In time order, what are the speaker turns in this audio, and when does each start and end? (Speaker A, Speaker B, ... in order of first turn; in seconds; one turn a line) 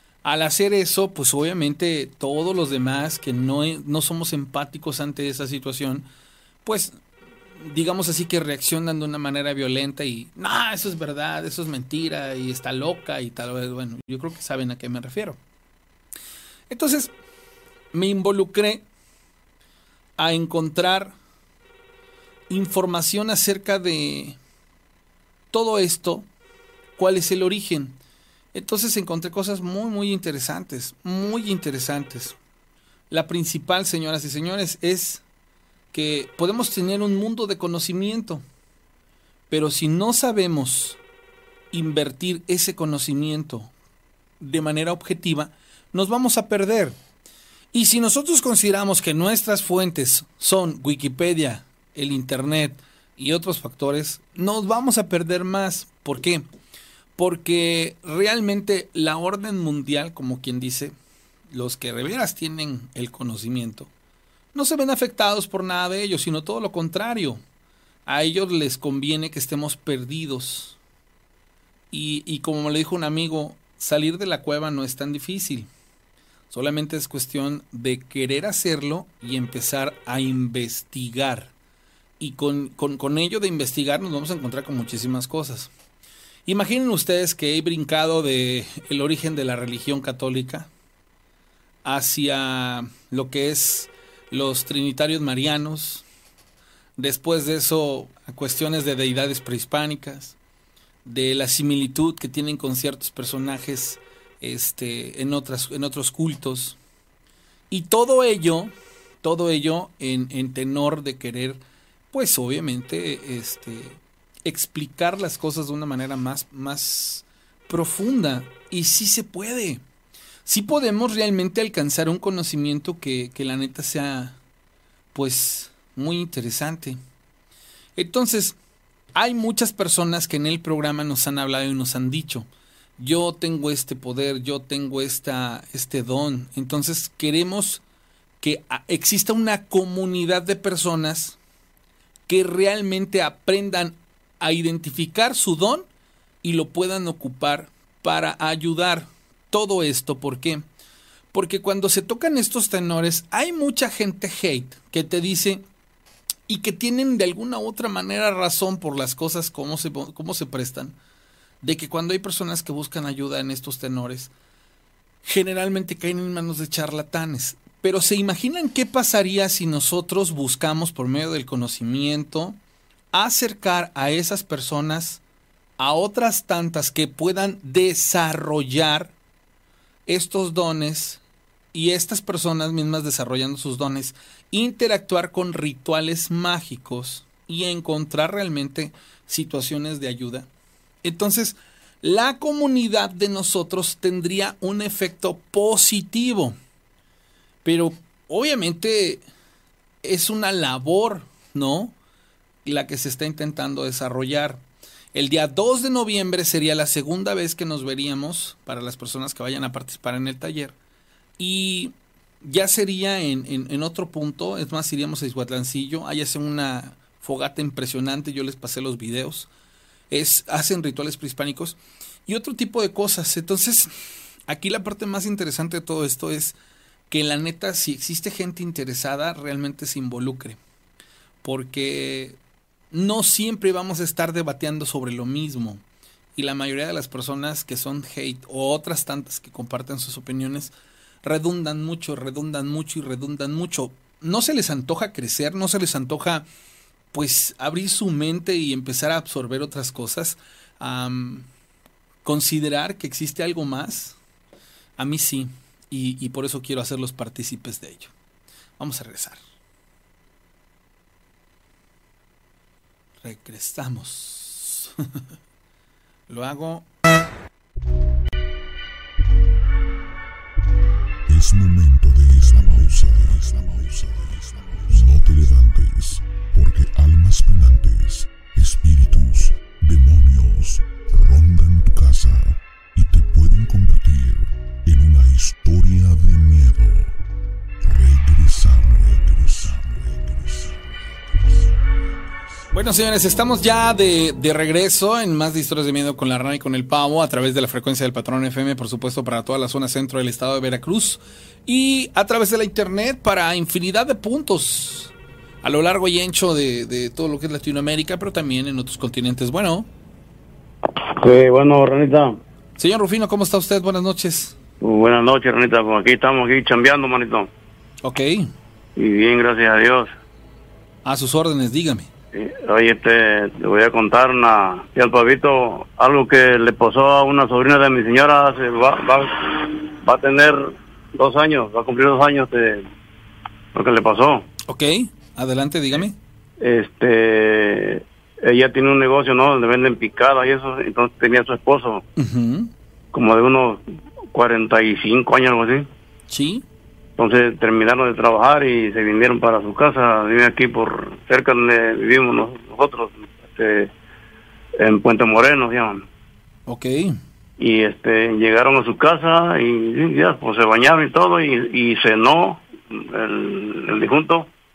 Speaker A: 0.2-6.0
Speaker A: 6.6-6.9
Speaker A: 7.6-15.4
Speaker A: 16.7-17.1
Speaker A: 17.9-18.9
Speaker A: 20.2-21.1
Speaker A: 22.5-24.4
Speaker A: 25.5-26.3
Speaker A: 27.0-28.0
Speaker A: 28.5-32.4
Speaker A: 33.1-35.2
Speaker A: 35.9-38.4
Speaker A: 39.5-41.0
Speaker A: 41.7-43.7
Speaker A: 44.4-47.0
Speaker A: 47.7-56.4
Speaker A: 57.2-60.9
Speaker A: 61.5-63.9
Speaker A: 64.5-67.4
Speaker A: 68.1-70.8
Speaker A: 71.9-75.7
Speaker A: 76.5-81.5
Speaker A: 82.2-85.7
Speaker A: 86.5-90.7
Speaker A: 91.8-96.0
Speaker A: 97.0-100.3
Speaker A: 101.0-106.8
Speaker A: 107.7-111.6
Speaker A: 112.1-119.8
Speaker A: 120.5-124.4
Speaker A: 125.1-127.0
Speaker A: 128.0-128.6
Speaker A: 129.1-137.8
Speaker A: 138.4-141.4
Speaker A: 142.3-145.9
Speaker A: 146.4-150.6
Speaker A: 151.3-155.6
Speaker A: 156.5-160.9
Speaker A: 161.6-164.3
Speaker A: 165.2-172.6
Speaker A: 173.1-175.2
Speaker A: 175.8-179.1
Speaker A: 180.1-181.2
Speaker A: 181.7-190.5
Speaker A: 191.0-196.6
Speaker A: 197.6-199.2
Speaker A: 200.0-201.9
Speaker A: 202.6-204.6
Speaker A: 205.1-210.7
Speaker A: 211.4-219.5
Speaker A: 220.1-223.9
Speaker A: 224.5-226.5
Speaker A: 227.1-230.6
Speaker A: 231.4-232.4
Speaker A: 232.9-235.8
Speaker A: 236.3-240.7
Speaker A: 241.2-246.5
Speaker A: 247.1-251.5
Speaker A: 252.2-254.2
Speaker A: 255.0-258.1
Speaker A: 258.8-259.4
Speaker A: 263.2-264.9
Speaker A: 266.3-266.9
Speaker B: 271.3-287.2
Speaker B: 287.8-290.9
Speaker A: 292.7-309.9
Speaker C: 311.1-312.4
Speaker A: 312.8-314.6
Speaker C: 314.8-317.5
Speaker A: 318.0-318.5
Speaker C: 318.9-320.1
Speaker A: 321.0-322.1
Speaker C: 322.3-332.8
Speaker C: 333.7-334.4
Speaker A: 334.7-336.1
Speaker C: 336.6-342.0
Speaker A: 342.2-342.7
Speaker C: 343.1-345.9
Speaker A: 346.3-346.6
Speaker C: 347.2-353.9
Speaker C: 354.8-356.0
Speaker A: 356.7-357.2
Speaker C: 357.6-364.5